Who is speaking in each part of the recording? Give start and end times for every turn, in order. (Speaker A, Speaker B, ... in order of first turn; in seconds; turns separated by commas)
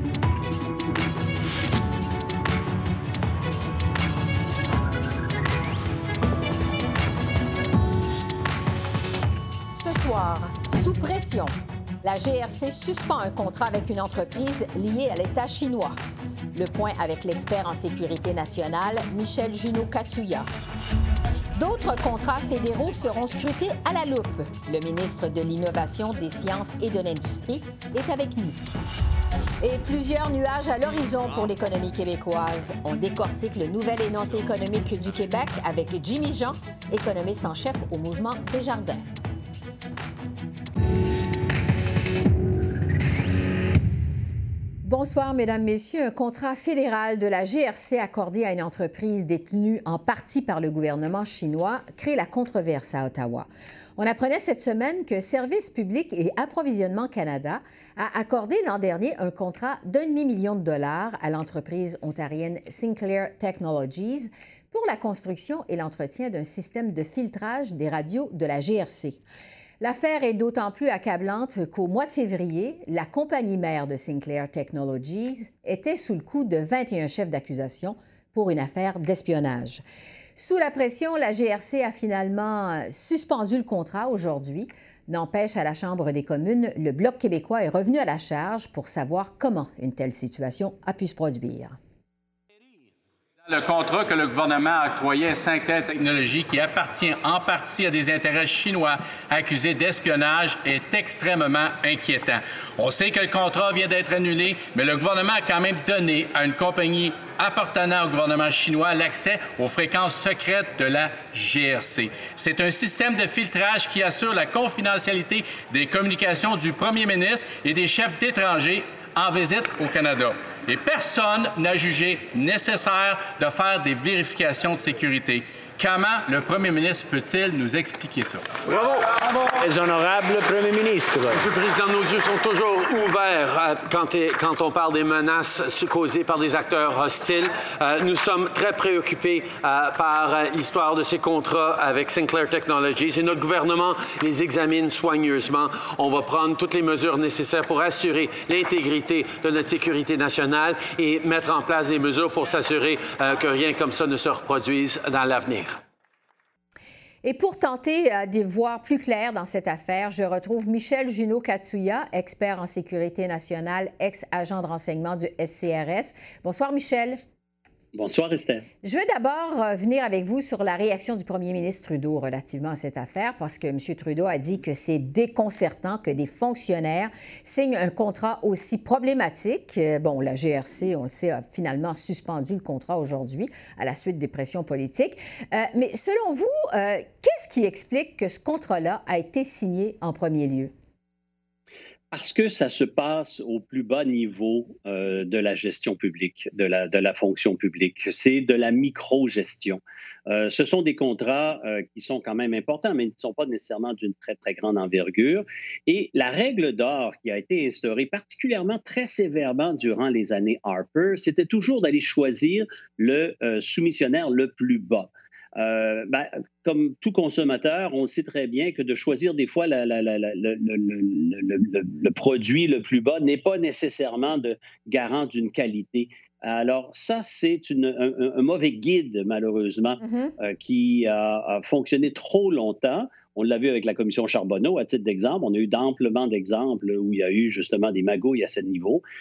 Speaker A: 9.7-16.0, Speaker A: 16.5-20.5, Speaker A: 21.6-28.6, Speaker A: 29.6-39.1, Speaker A: 44.8-69.2, Speaker A: 69.8-79.8, Speaker A: 80.4-91.8, Speaker B: 93.4-128.6, Speaker C: 128.7-131.4, Speaker D: 131.3-155.8, Speaker A: 157.2-167.2, Speaker E: 167.9-168.7, Speaker A: 168.8-190.7, Speaker E: 192.1-239.0, Speaker A: 230.1-230.3